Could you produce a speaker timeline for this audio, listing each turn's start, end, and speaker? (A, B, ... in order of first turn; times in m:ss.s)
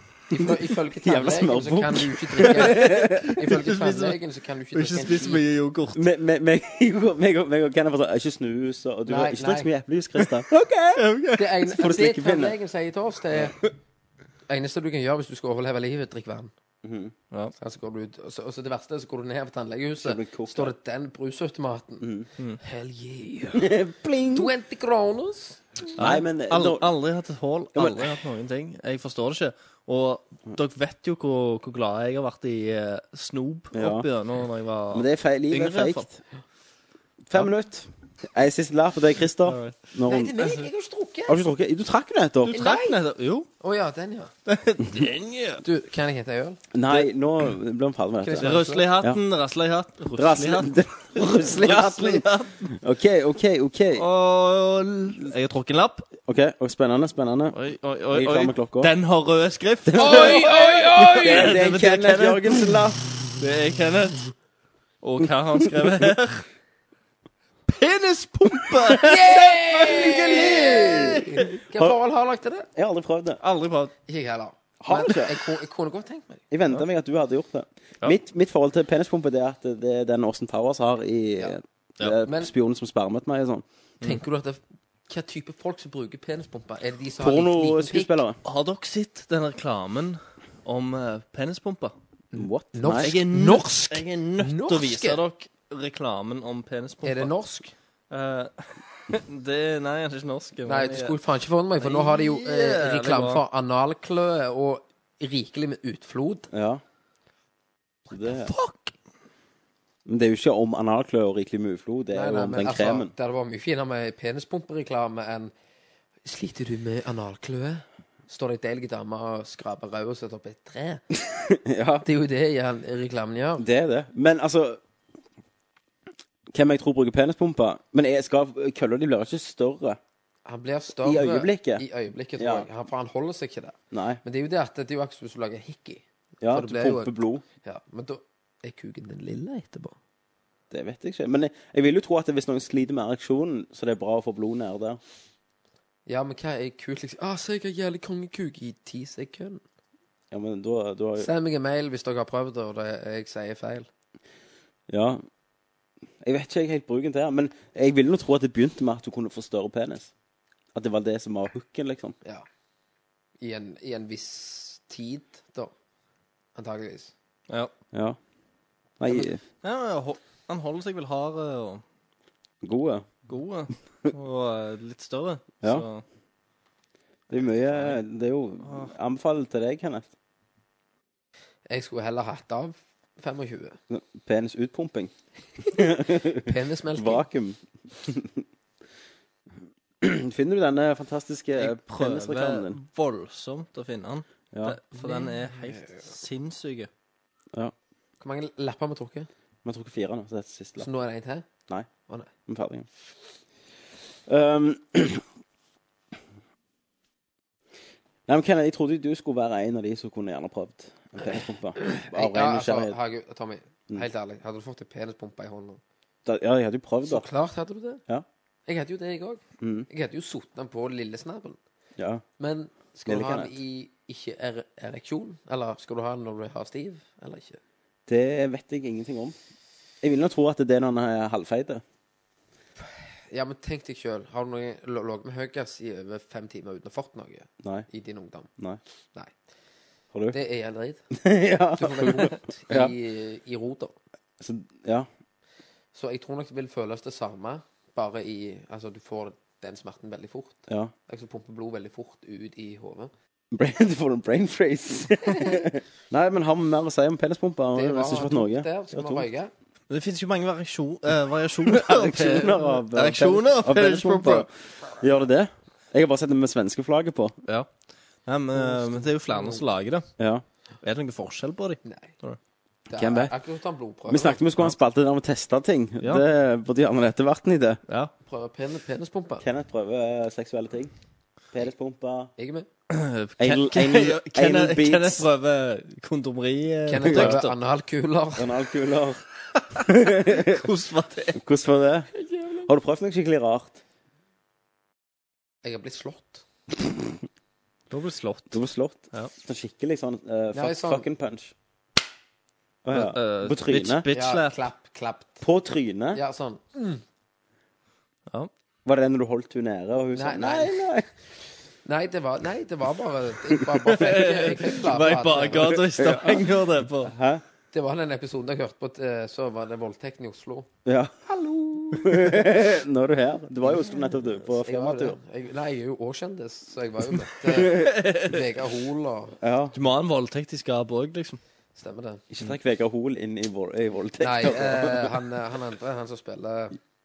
0:00.3-0:05.4 A
0:01.0-0:03.4 B
0:03.4-0:04.2 C
0:04.7-0:06.0 C
0:05.9-0:11.0 B
0:09.1-0:09.7 A
0:11.0-0:11.6 C
0:11.4-0:13.6 A
0:11.7-0:12.6 B
0:14.5-0:16.5 A
0:16.8-0:17.1 B
0:17.6-0:22.1 A
0:20.0-0:20.7 B
0:22.0-0:22.3 B
0:22.6-0:23.7 A
0:23.5-0:24.5 B
0:24.3-0:25.9 A
0:26.0-0:26.9 B
0:26.0-0:36.1 C
0:27.8-0:28.1 B
0:33.7-0:34.1 B
0:34.9-0:36.2 B
0:37.3-0:40.4 B
0:39.5-0:39.8 C
0:40.1-0:41.4 A
0:41.3-0:42.6 B
0:42.4-0:43.5 C
0:42.5-0:43.0 A
0:43.6-0:44.3 A
0:44.5-0:45.6 C
0:45.6-0:46.6 A
0:46.7-0:49.2 B
0:48.2-0:48.9 A
0:48.4-0:52.7 C
0:50.2-0:54.1 B
0:54.0-0:56.1 C
0:56.3-0:57.6 B
0:57.5-1:02.8 C
0:58.1-0:58.9 B
0:59.9-1:03.0 B
1:00.0-1:01.6 A
1:03.4-1:04.3 C
1:05.0-1:06.4 C
1:07.7-1:11.5 C
1:08.9-1:12.0 B
1:09.0-1:12.7 A
1:12.8-1:13.4 B
1:13.4-1:13.9 C
1:14.1-1:16.4 A
1:14.8-1:15.4 B
1:16.5-1:23.6 B
1:22.2-1:22.5 A
1:24.0-1:28.1 A
1:27.2-1:28.4 B
1:28.4-1:32.0 C
1:32.3-1:35.2 A
1:32.4-1:33.2 B
1:33.0-1:37.3 C
1:37.0-1:37.7 A
1:38.1-1:41.2 C
1:40.6-1:46.5 A
1:41.8-1:43.4 C
1:46.5-1:46.8 B
1:48.1-1:48.5 B
1:48.1-1:48.9 A
1:50.1-1:53.1 B
1:52.1-1:55.5 A
1:56.2-2:01.0 A
2:01.3-2:02.1 B
2:02.0-2:03.6 A
2:03.6-2:04.8 B
2:06.5-2:10.0 B
2:10.5-2:20.0 A
2:11.0-2:11.8 B
2:12.4-2:12.7 B
2:13.9-2:14.2 B
2:16.4-2:17.4 B
2:20.7-2:25.0 B
2:26.1-2:29.6 A
2:30.3-2:31.3 B
2:31.2-2:33.9 A
2:34.9-2:35.2 B
2:36.2-2:40.1 B
2:40.7-2:42.2 B
2:43.4-2:45.7 A
2:46.6-2:47.1 A
2:47.9-2:48.2 B
2:49.0-2:49.4 B
2:49.6-2:51.8 C
2:52.6-2:53.1 B
2:53.3-2:56.0 C
2:57.3-3:00.1 B
2:58.6-2:58.9 C
3:01.7-3:03.8 A
3:03.9-3:08.4 B
3:06.4-3:07.3 A
3:10.0-3:12.8 B
3:11.6-3:16.9 C
3:14.5-3:14.8 B
3:15.0-3:15.8 A
3:18.2-3:19.3 A
3:19.6-3:20.9 B
3:20.8-3:21.5 A
3:22.5-3:22.9 B
3:24.3-3:25.2 B
3:28.3-3:33.0 B
3:31.8-3:35.8 A
3:36.2-3:37.3 B
3:37.0-3:38.0 A
3:38.7-3:41.6 A
3:39.6-3:39.9 B
3:42.0-3:42.2 B
3:42.4-3:47.6 A
3:43.1-3:43.6 B
3:48.1-3:49.4 B
3:50.0-3:51.8 B
3:53.3-3:58.5 A
4:00.3-4:01.1 A
4:01.1-4:02.9 B
4:01.8-4:04.0 A
4:04.4-4:05.1 B
4:05.9-4:13.1 A
4:13.5-4:19.3 B
4:17.7-4:19.5 A
4:19.9-4:24.5 C
4:21.7-4:27.4 B
4:28.2-4:30.1 C
4:28.6-4:29.6 A
4:30.2-4:30.4 B
4:30.8-4:32.4 C
4:31.8-4:32.1 A
4:32.9-4:34.4 A
4:32.9-4:33.3 B
4:34.1-4:37.8 B
4:38.3-4:39.4 A
4:39.4-4:40.9 B
4:41.5-4:42.3 B
4:42.4-4:42.7 A
4:42.9-4:47.5 C
4:43.4-4:45.3 B
4:46.9-4:48.5 A
4:47.0-4:47.4 B
4:48.4-4:49.2 B
4:49.6-4:51.4 C
4:49.8-4:50.6 B
4:51.4-4:52.1 B
4:52.2-4:52.7 A
4:52.6-4:53.8 B
4:55.6-4:56.4 A
4:57.9-4:58.6 C
4:58.5-5:01.5 B
5:00.5-5:01.1 A
5:02.8-5:04.1 B
5:02.9-5:04.6 C
5:04.1-5:05.4 A
5:05.4-5:06.2 B
5:06.2-5:07.0 A
5:08.8-5:11.1 B
5:10.2-5:11.0 A
5:11.8-5:15.8 A
5:13.8-5:17.1 C
5:15.6-5:16.5 B
5:17.0-5:17.4 B
5:17.7-5:20.7 A
5:20.9-5:25.2 B
5:24.4-5:29.4 A
5:27.5-5:27.9 B
5:27.6-5:28.5 C
5:29.4-5:29.8 B
5:29.7-5:31.4 C
5:31.8-5:32.2 A
5:32.3-5:35.2 B
5:34.2-5:36.8 A